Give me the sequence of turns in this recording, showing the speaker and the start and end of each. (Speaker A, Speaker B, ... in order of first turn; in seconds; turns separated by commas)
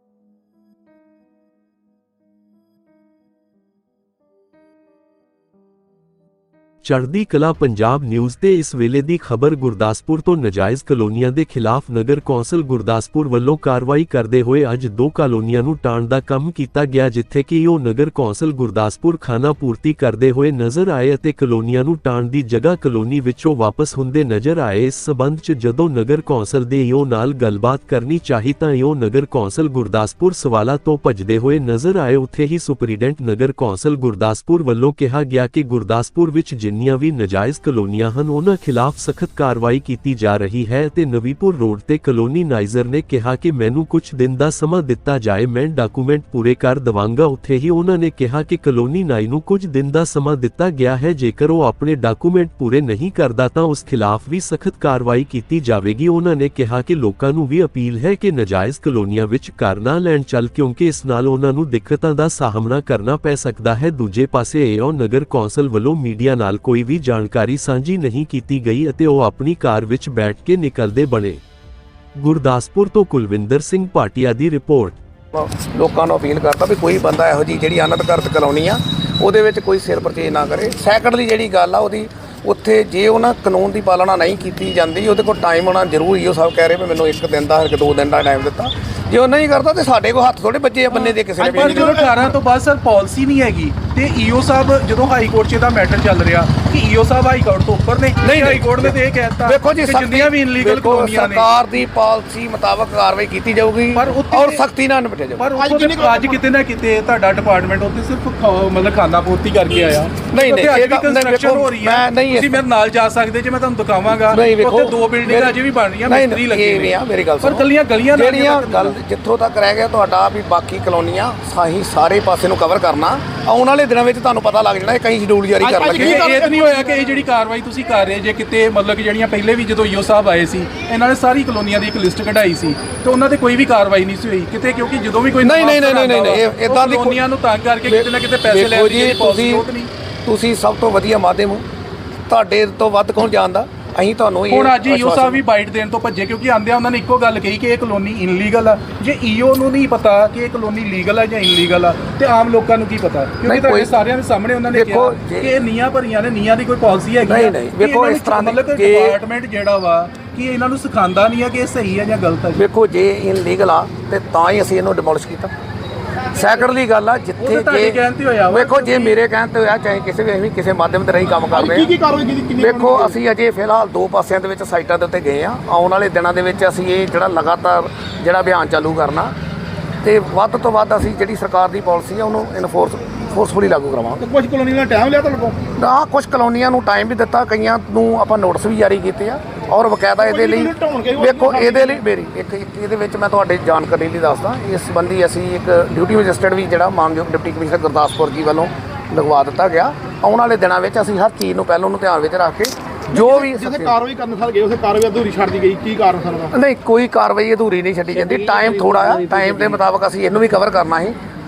Speaker A: 6.8-71.4, Speaker A: 72.2-75.0, Speaker B: 75.3-92.1, Speaker C: 90.9-101.5, Speaker D: 91.4-92.3, Speaker B: 98.2-105.4, Speaker C: 103.9-104.6, Speaker C: 105.4-119.0, Speaker D: 105.5-106.4, Speaker B: 110.3-112.6, Speaker B: 114.3-115.5, Speaker B: 116.1-126.4, Speaker D: 125.6-127.2, Speaker C: 125.9-139.9, Speaker B: 135.4-137.2, Speaker B: 137.9-139.7, Speaker B: 140.2-141.6, Speaker B: 142.3-145.4, Speaker C: 144.5-162.6, Speaker B: 153.4-153.9, Speaker B: 154.7-155.6, Speaker B: 157.2-159.2, Speaker B: 162.6-165.5, Speaker B: 166.3-171.9, Speaker C: 167.4-169.2, Speaker D: 171.5-173.2, Speaker B: 172.6-179.3, Speaker B: 180.0-184.2, Speaker D: 184.2-185.6, Speaker B: 185.7-204.0, Speaker D: 190.2-192.0, Speaker D: 203.1-206.5, Speaker B: 206.5-211.2, Speaker D: 208.2-209.8